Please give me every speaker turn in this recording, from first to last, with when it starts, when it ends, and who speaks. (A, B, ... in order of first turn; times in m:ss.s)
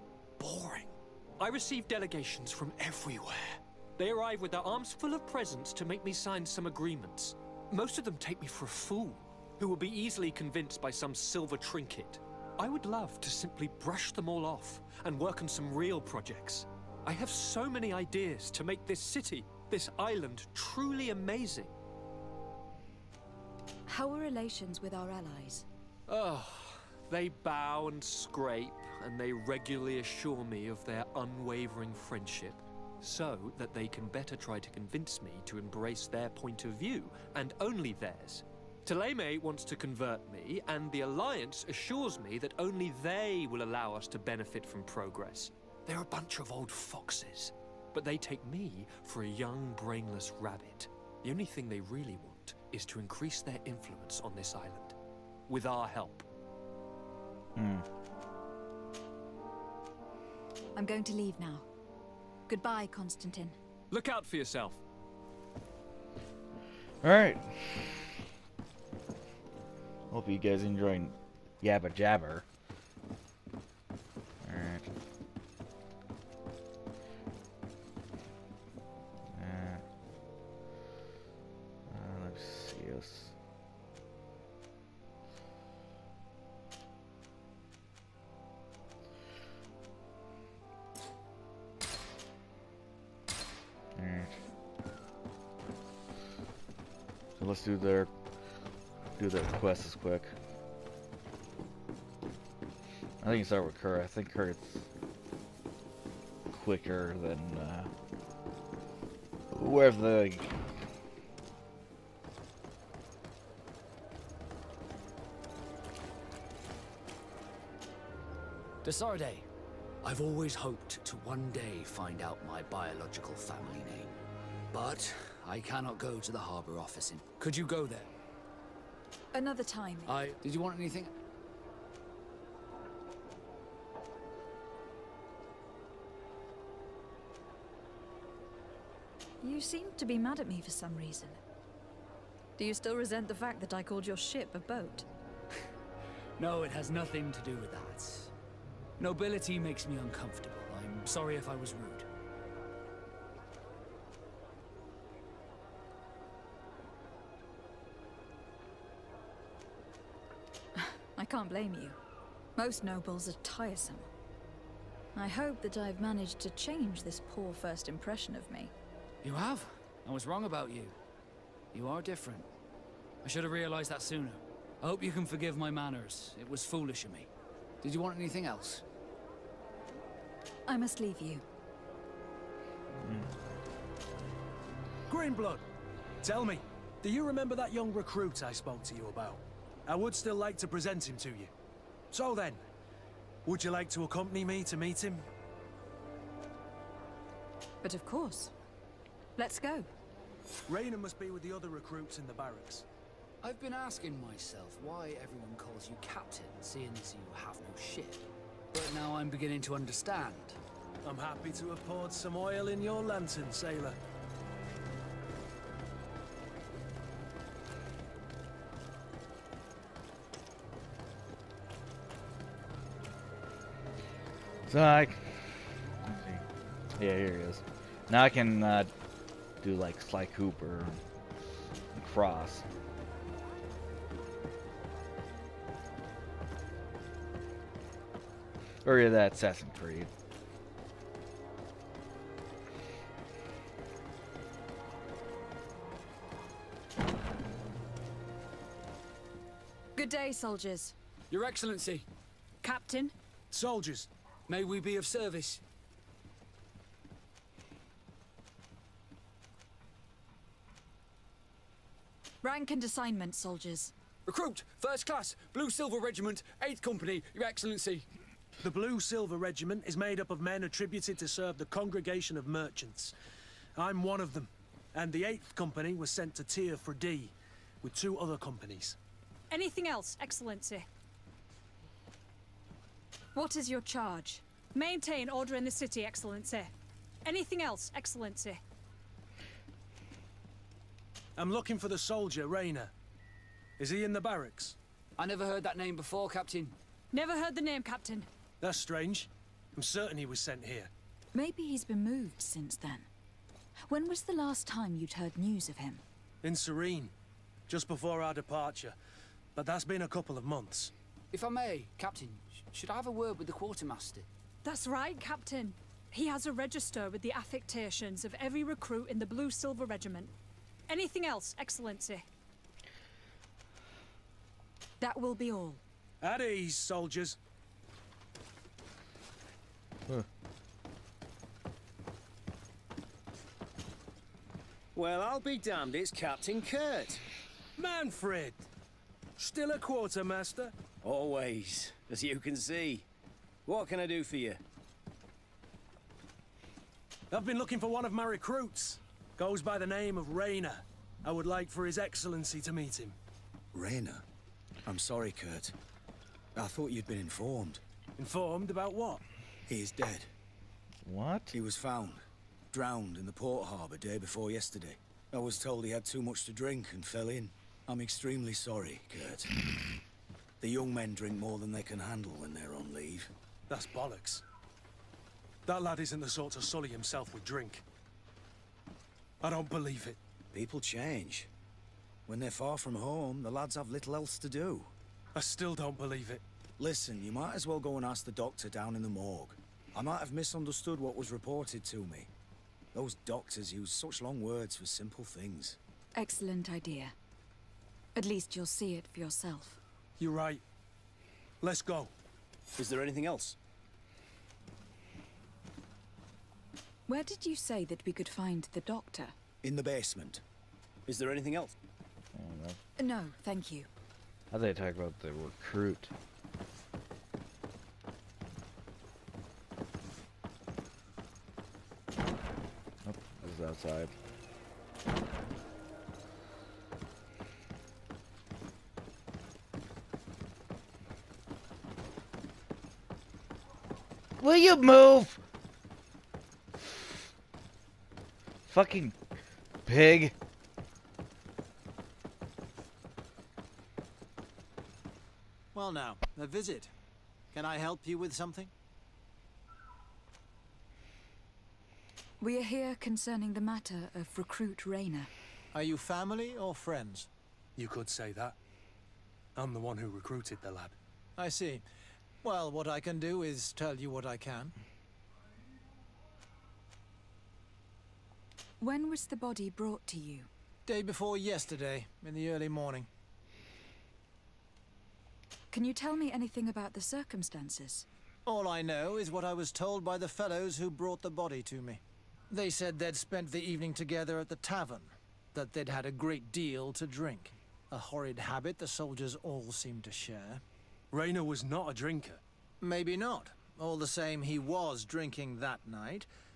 0:00.4-0:21.7 A
0:23.9-0:25.6 B
0:26.1-0:55.0 A
0:55.5-0:56.2 A
0:57.6-0:57.8 C
1:00.7-1:01.7 B
1:02.5-1:03.6 B
1:03.9-1:04.8 A
1:07.0-1:08.0 C
1:10.1-1:12.4 C
1:14.4-1:14.9 C
1:19.3-1:19.8 C
1:21.9-1:23.3 C
1:33.9-1:34.4 C
1:37.4-1:38.1 C
1:39.2-1:40.3 C
1:43.2-1:44.9 C
1:46.5-1:47.9 C
1:49.5-1:50.6 C
1:58.8-1:59.5 D
2:00.0-2:04.1 D
2:04.7-2:08.1 D
2:09.3-2:10.2 B
2:10.1-2:11.1 D
2:19.4-2:21.4 B
2:22.6-2:25.0 B
2:26.4-2:28.3 D
2:29.0-2:32.1 D
2:40.8-2:42.0 B
2:42.6-2:44.1 B
2:45.1-2:48.7 B
2:49.2-2:51.0 D
2:51.7-2:52.5 D
2:53.2-2:57.3 D
2:57.8-2:58.8 D
3:00.6-3:01.4 B
3:03.0-3:03.3 C
3:05.1-3:05.6 E
3:06.2-3:11.5 E
3:12.1-3:12.6 E
3:13.4-3:15.3 E
3:17.8-3:18.5 B
3:19.4-3:19.9 B
3:20.7-3:22.8 E
3:23.4-3:30.6 D
3:31.0-3:34.0 E
3:44.7-3:46.4 C
3:47.0-3:48.9 C
3:49.6-3:51.0 C
3:51.9-3:52.6 C
3:58.8-4:00.1 C
4:10.0-4:10.9 B
4:11.3-4:12.0 D
4:12.6-4:13.1 F
4:13.5-4:14.1 E
4:14.5-4:15.6 D
4:22.4-4:23.9 B
4:24.2-4:28.0 D
4:28.6-4:33.1 E
4:33.8-4:39.0 E
4:39.5-4:40.9 F
4:43.3-4:44.4 B
4:44.7-4:46.7 F
4:47.2-4:48.6 F
4:51.4-4:52.9 E
4:53.8-4:54.8 E
4:55.2-4:56.8 D
4:57.1-4:58.3 F
4:58.6-5:00.9 E
5:01.3-5:03.1 B
5:03.9-5:06.0 B
5:06.4-5:07.1 E
5:07.7-5:09.0 E
5:09.5-5:10.9 E
5:11.3-5:14.3 D
5:14.6-5:20.3 F
5:20.9-5:22.3 F
5:25.0-5:25.8 B
5:26.2-5:27.4 E
5:34.9-5:37.2 G
5:37.8-5:38.6 E
5:39.4-5:40.7 E
5:41.0-5:43.0 G
5:43.6-5:44.6 G
5:47.3-5:53.2 E
5:53.7-5:54.2 H
5:54.8-5:55.7 H
5:56.5-5:57.8 H
5:58.2-5:59.2 E
5:59.7-6:00.3 H
6:01.0-6:01.5 C
6:01.5-6:09.5 H
6:10.6-6:13.3 H
6:13.7-6:14.4 E
6:15.6-6:17.8 E
6:19.4-6:20.2 E
6:20.5-6:21.5 H
6:22.3-6:24.9 H
6:25.4-6:26.4 E
6:26.8-6:32.3 H
6:32.9-6:35.8 H
6:36.2-6:37.1 B
6:38.2-6:39.8 B
6:40.2-6:40.6 E
6:41.6-6:42.1 E
6:42.8-6:43.5 G
6:47.1-6:49.3 B
6:49.6-6:50.4 H
6:51.1-6:51.7 G
6:52.3-6:52.8 C
6:53.0-6:53.9 B
6:54.5-6:56.1 C
7:03.0-7:04.1 C
7:14.4-7:15.4 C
7:18.7-7:19.2 C
7:19.8-7:20.3 C
7:25.7-7:26.9 I
7:27.5-7:28.7 I
7:32.4-7:35.3 B
7:35.7-7:37.3 I
7:37.8-7:38.5 E
7:39.6-7:40.9 E
7:41.4-7:41.8 I
7:42.4-7:44.7 I
7:48.8-7:50.5 B
7:50.9-7:53.1 I
7:55.7-7:58.0 B
7:58.4-8:10.6 I
8:11.1-8:12.4 E
8:12.8-8:16.3 I